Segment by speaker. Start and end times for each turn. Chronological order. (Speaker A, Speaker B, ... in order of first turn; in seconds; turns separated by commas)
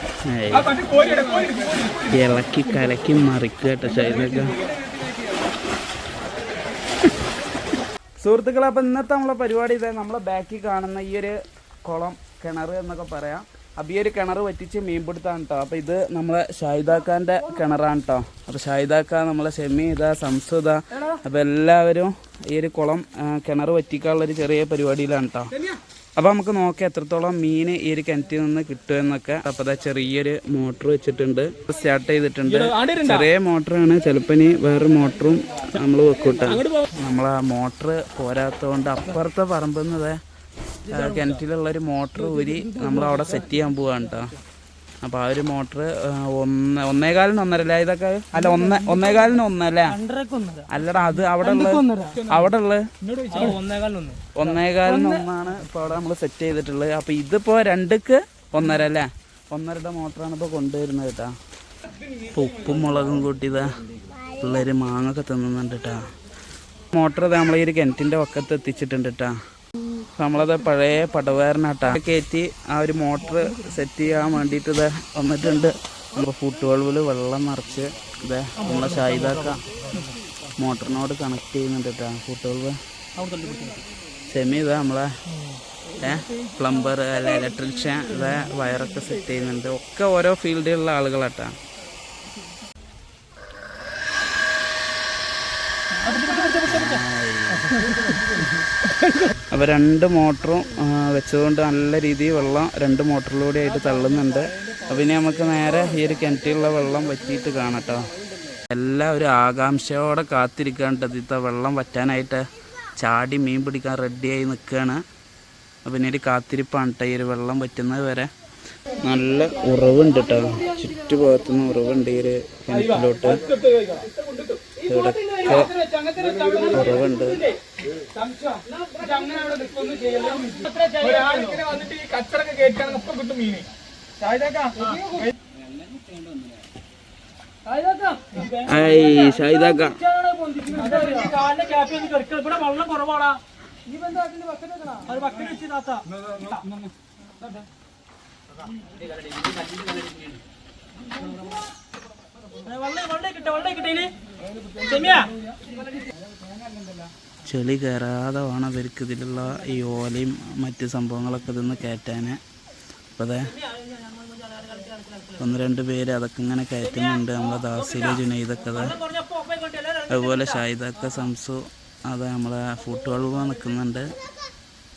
Speaker A: 0.3-0.7, Speaker B: 0.5-2.2, Speaker A: 2.1-4.6, Speaker B: 3.9-5.5, Speaker A: 8.2-25.6, Speaker A: 26.2-40.2, Speaker B: 32.5-33.2, Speaker B: 36.5-36.9, Speaker A: 40.9-44.4, Speaker A: 45.0-50.0, Speaker B: 48.4-49.2, Speaker C: 49.9-50.7, Speaker A: 50.7-52.9, Speaker C: 51.4-52.2, Speaker B: 52.1-52.5, Speaker B: 53.0-53.7, Speaker C: 53.4-54.2, Speaker A: 54.4-61.4, Speaker A: 62.3-63.7, Speaker A: 64.3-66.0, Speaker A: 66.9-69.4, Speaker A: 70.2-79.6, Speaker A: 80.6-82.8, Speaker C: 83.2-83.8, Speaker A: 84.3-85.1, Speaker A: 86.0-91.5, Speaker C: 96.0-97.0, Speaker A: 96.7-97.8, Speaker A: 99.5-108.1, Speaker A: 108.7-112.5, Speaker A: 113.0-115.0, Speaker A: 115.8-118.3, Speaker A: 119.0-123.5, Speaker B: 122.9-124.9, Speaker A: 124.9-125.7, Speaker C: 125.4-125.7, Speaker B: 125.5-127.1, Speaker A: 126.7-127.5, Speaker B: 128.2-133.7, Speaker C: 130.1-131.6, Speaker B: 134.2-135.3, Speaker C: 134.8-135.3, Speaker C: 137.7-143.4, Speaker B: 138.3-138.8, Speaker A: 138.7-140.0, Speaker B: 140.7-141.3, Speaker B: 144.1-145.5, Speaker C: 145.0-146.1, Speaker B: 146.1-146.9, Speaker C: 152.6-154.1, Speaker B: 154.5-155.5, Speaker C: 154.9-155.3, Speaker B: 156.4-157.1, Speaker A: 157.4-162.4, Speaker A: 163.2-163.6, Speaker C: 163.7-165.3, Speaker A: 165.4-169.0, Speaker C: 167.6-168.0, Speaker C: 168.9-170.6, Speaker A: 170.1-174.1